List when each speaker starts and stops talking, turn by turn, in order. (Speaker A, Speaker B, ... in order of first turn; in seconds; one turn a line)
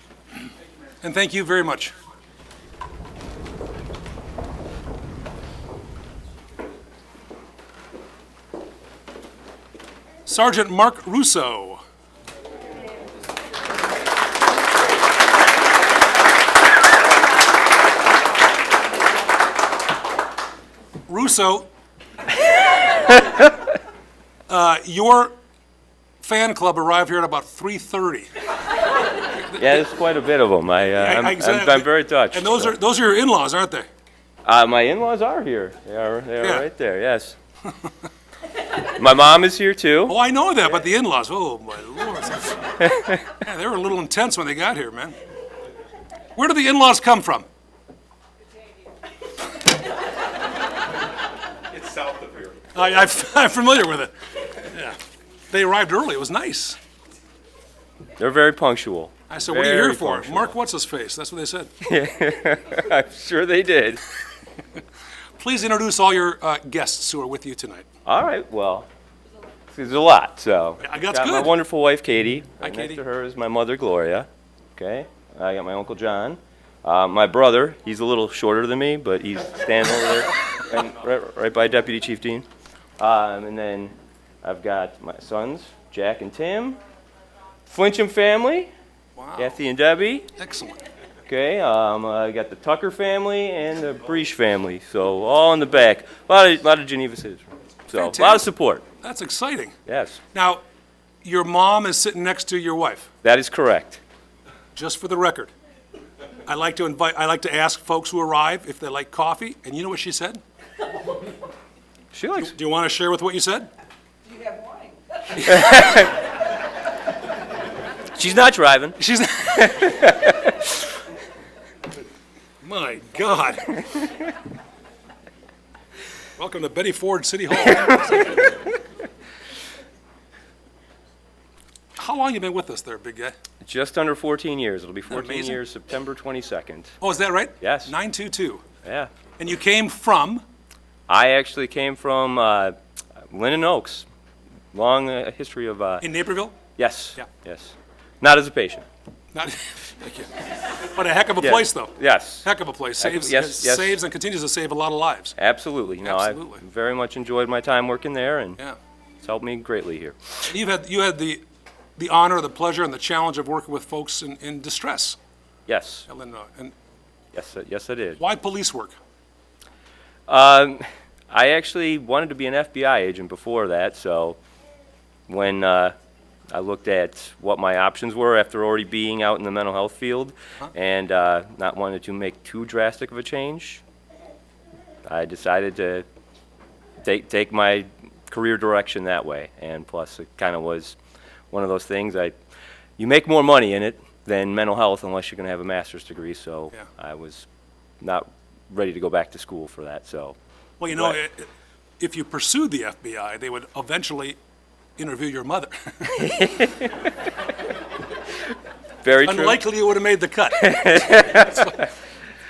Speaker A: 1.0-1.9
Speaker A: 10.2-11.8
Speaker A: 21.1-21.7
Speaker B: 23.1-23.5
Speaker A: 24.5-25.3
Speaker A: 26.2-28.3
Speaker A: 29.2-29.8
Speaker B: 29.5-32.7
Speaker A: 31.0-33.9
Speaker B: 34.4-37.4
Speaker A: 36.4-36.6
Speaker B: 38.8-40.1
Speaker A: 40.1-45.1
Speaker A: 46.4-47.5
Speaker A: 52.7-54.1
Speaker A: 54.6-55.0
Speaker A: 55.5-56.8
Speaker B: 58.2-60.5
Speaker A: 59.3-61.7
Speaker B: 61.8-64.0
Speaker A: 65.4-67.8
Speaker B: 68.0-68.9
Speaker B: 69.7-82.4
Speaker A: 70.8-71.5
Speaker A: 72.6-73.0
Speaker B: 83.0-86.8
Speaker B: 87.7-88.7
Speaker A: 89.2-89.6
Speaker B: 89.4-90.3
Speaker A: 90.4-90.8
Speaker B: 91.2-98.8
Speaker A: 97.9-98.5
Speaker A: 99.0-99.7
Speaker B: 99.8-100.2
Speaker A: 100.3-100.6
Speaker A: 101.2-103.1
Speaker B: 103.2-104.0
Speaker A: 104.7-105.5
Speaker A: 106.5-110.4
Speaker B: 112.1-112.5
Speaker A: 112.4-113.7
Speaker B: 115.4-116.1
Speaker B: 118.1-119.0
Speaker A: 119.0-120.0
Speaker B: 119.7-120.5
Speaker A: 122.6-123.8
Speaker A: 126.4-128.6
Speaker A: 132.0-133.3
Speaker B: 133.6-136.9
Speaker A: 135.1-135.6
Speaker A: 137.0-138.6
Speaker B: 137.6-137.9
Speaker B: 138.8-139.1
Speaker A: 139.4-140.4
Speaker B: 141.1-142.7
Speaker B: 143.3-144.1
Speaker B: 144.7-146.1
Speaker A: 146.0-146.6
Speaker B: 146.8-148.8
Speaker A: 149.3-150.3
Speaker A: 150.9-155.3
Speaker B: 151.4-152.4
Speaker B: 153.0-154.0
Speaker B: 155.4-158.6
Speaker A: 156.0-156.6
Speaker B: 159.2-160.4
Speaker A: 160.5-161.4
Speaker A: 162.0-165.2
Speaker B: 165.7-166.1
Speaker A: 166.1-166.7
Speaker B: 167.3-168.2
Speaker A: 168.2-168.9
Speaker B: 170.3-174.4
Speaker B: 175.3-175.9
Speaker B: 176.5-183.8
Speaker B: 185.1-186.0
Speaker B: 187.0-191.0
Speaker B: 191.5-192.3
Speaker B: 193.0-197.5
Speaker B: 198.0-200.3
Speaker A: 200.8-201.5
Speaker B: 200.9-201.2
Speaker A: 202.0-204.4
Speaker A: 205.0-206.2
Speaker B: 206.1-207.1
Speaker B: 209.0-209.6
Speaker A: 209.2-211.7
Speaker B: 210.6-211.8